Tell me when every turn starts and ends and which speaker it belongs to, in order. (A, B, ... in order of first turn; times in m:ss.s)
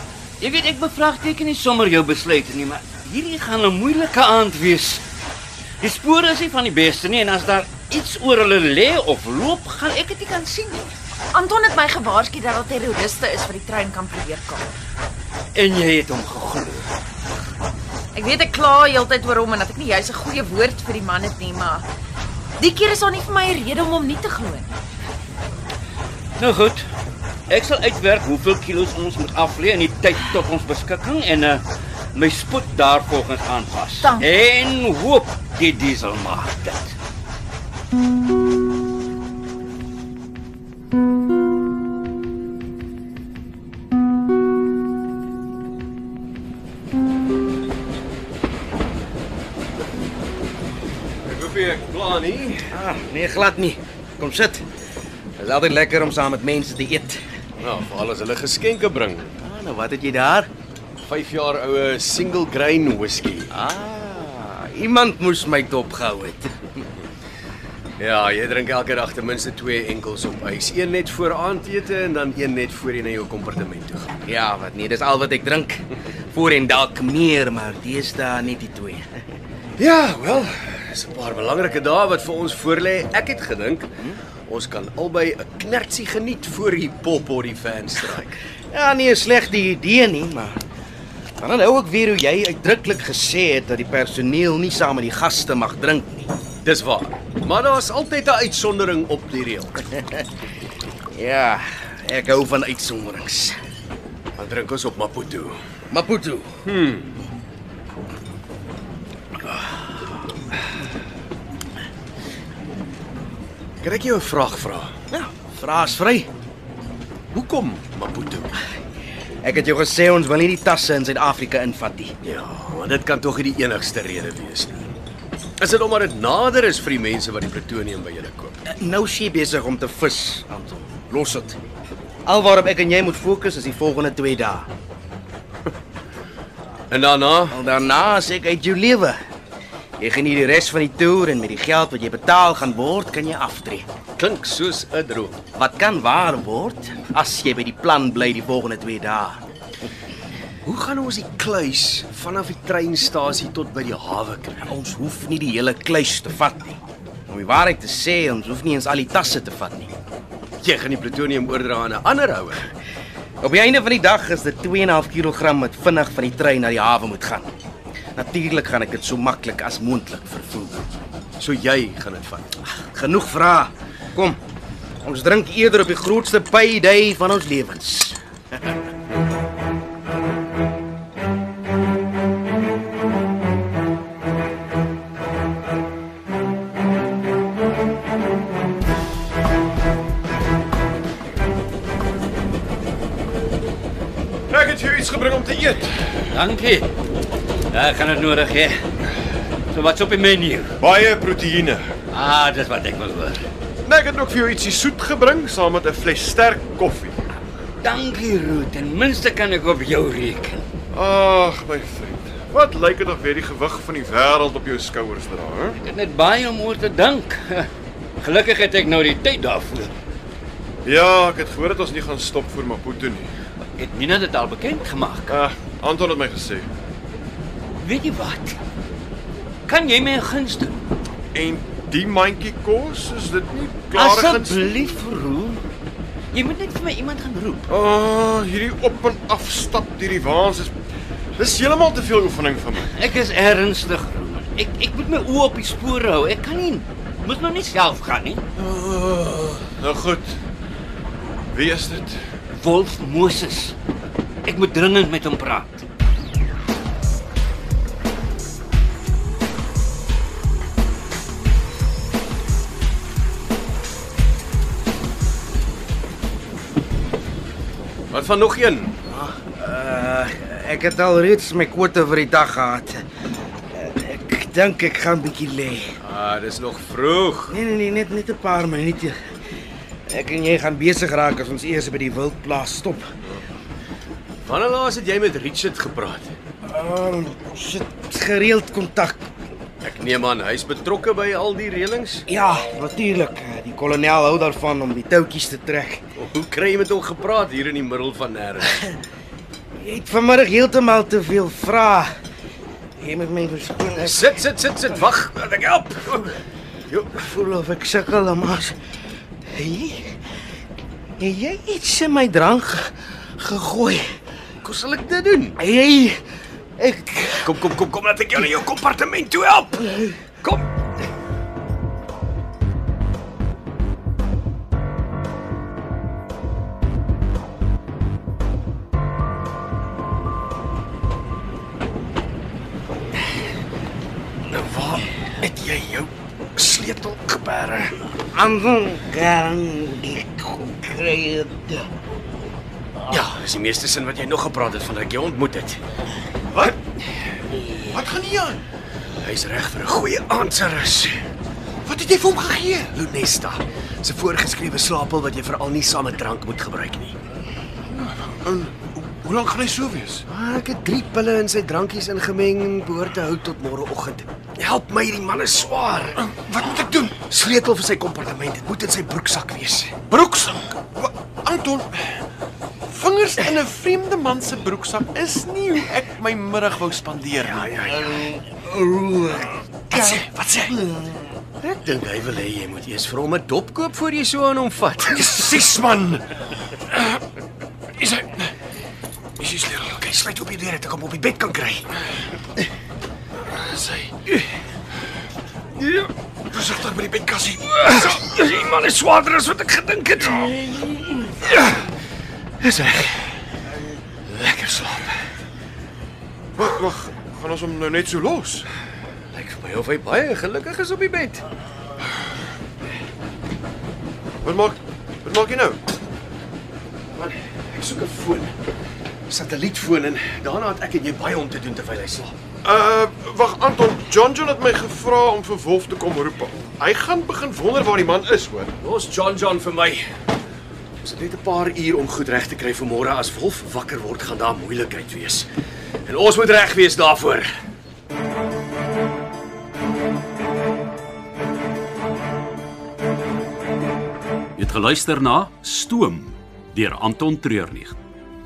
0:00.4-0:05.0 A
0:05.8-0:10.9 A
0:11.3-0:14.7 B
0:15.5-0:16.8 A
0:18.1-0:21.8 B
0:22.6-0:24.7 B
0:26.4-0:26.9 A
0:27.5-0:36.9 A
0:51.2-0:52.6 C
0:52.7-0:54.6 D
0:55.4-0:57.2 D
0:57.6-0:59.3 C
0:59.4-1:00.5 D
1:01.0-1:03.5 C
1:03.5-1:06.6 D
1:08.0-1:14.1 C
1:14.2-1:19.0 D
1:19.8-1:28.4 C
1:28.7-1:30.6 D
1:31.4-1:36.3 D
1:36.6-1:39.7 C
1:39.9-1:40.2 D
1:41.1-1:43.6 D
1:44.4-1:45.6 C
1:45.9-1:46.5 D
1:46.6-1:47.1 C
1:53.8-1:54.9 C
1:55.1-1:56.3 D
1:57.3-1:58.6 C
1:59.4-2:02.1 D
2:02.2-2:04.9 C
2:05.6-2:08.6 C
2:08.7-2:11.6 D
2:12.2-2:14.7 D
2:16.9-2:17.6 C
2:17.5-2:19.2 D
2:20.0-2:23.8 D
2:24.2-2:25.4 C
2:25.5-2:29.4 D
2:30.6-2:34.7 C
2:34.6-2:36.8 D
2:37.3-2:39.9 D
2:40.6-2:42.7 C
2:43.4-2:47.5 D
2:48.2-2:50.8 D
2:51.4-2:52.5 C
2:52.7-2:54.4 D
2:55.0-2:58.2 D
3:14.5-3:15.9 E
3:16.3-3:16.9 A
3:17.7-3:18.8 A
3:19.7-3:20.7 A
3:20.8-3:21.9 E
3:22.1-3:23.4 A
3:23.8-3:27.2 E
3:27.8-3:30.6 A
3:30.9-3:35.8 E
3:35.8-3:39.9 A
3:40.8-3:43.3 E
3:43.8-3:45.4 A
3:45.3-3:46.7 E
3:47.8-3:48.6 A
3:49.7-3:50.8 A
3:51.3-3:54.7 E
3:53.9-3:55.6 A
3:56.3-3:57.7 A
3:57.7-4:00.7 E
4:01.4-4:02.9 E
4:02.9-4:08.4 A
4:08.6-4:10.3 E
4:11.5-4:12.2 E
4:12.5-4:13.7 A
4:14.4-4:15.8 A
4:28.1-4:28.9 C
4:29.1-4:33.0 D
4:33.7-4:35.9 D
4:36.0-4:37.6 C
4:37.5-4:39.2 D
4:40.1-4:43.1 D
4:44.4-4:46.3 C
4:46.7-4:49.3 D
4:49.8-4:52.2 C
4:52.3-4:56.0 D
4:56.2-4:58.8 C
4:59.8-5:02.1 D
5:03.0-5:04.3 D
5:04.0-5:06.4 C
5:06.9-5:08.7 D
5:09.5-5:10.1 D
5:11.2-5:14.0 D
5:14.6-5:15.6 C
5:15.6-5:16.2 D
5:16.8-5:17.6 D
5:17.4-5:20.7 C
5:34.5-5:37.9 C
5:38.3-5:41.9 D
5:43.1-5:45.8 C
5:47.8-5:48.6 E
5:49.2-5:51.2 C
5:51.8-5:53.0 E
5:52.9-5:57.2 C
5:58.4-6:00.2 E
6:00.3-6:06.3 C
6:06.2-6:07.2 E
6:07.2-6:10.0 C
6:10.0-6:12.0 E
6:12.9-6:17.9 E
6:17.4-6:19.3 C
6:19.9-6:20.7 C
6:19.9-6:20.8 E
6:21.6-6:25.7 C
6:25.0-6:26.3 E
6:28.0-6:28.5 E
6:29.4-6:30.0 E
6:29.6-6:31.9 C
6:33.5-6:34.1 E
6:36.5-6:38.2 E
6:37.7-6:41.8 C
6:42.6-6:43.3 C
6:44.3-6:45.2 C
6:46.6-6:48.7 E
6:49.3-6:51.4 C
6:54.4-6:55.8 E
6:57.2-6:58.5 C
6:59.3-7:02.3 C
7:02.6-7:08.7 E
7:08.8-7:10.0 C
7:11.0-7:15.5 C
7:16.0-7:17.5 C
7:24.6-7:28.0 F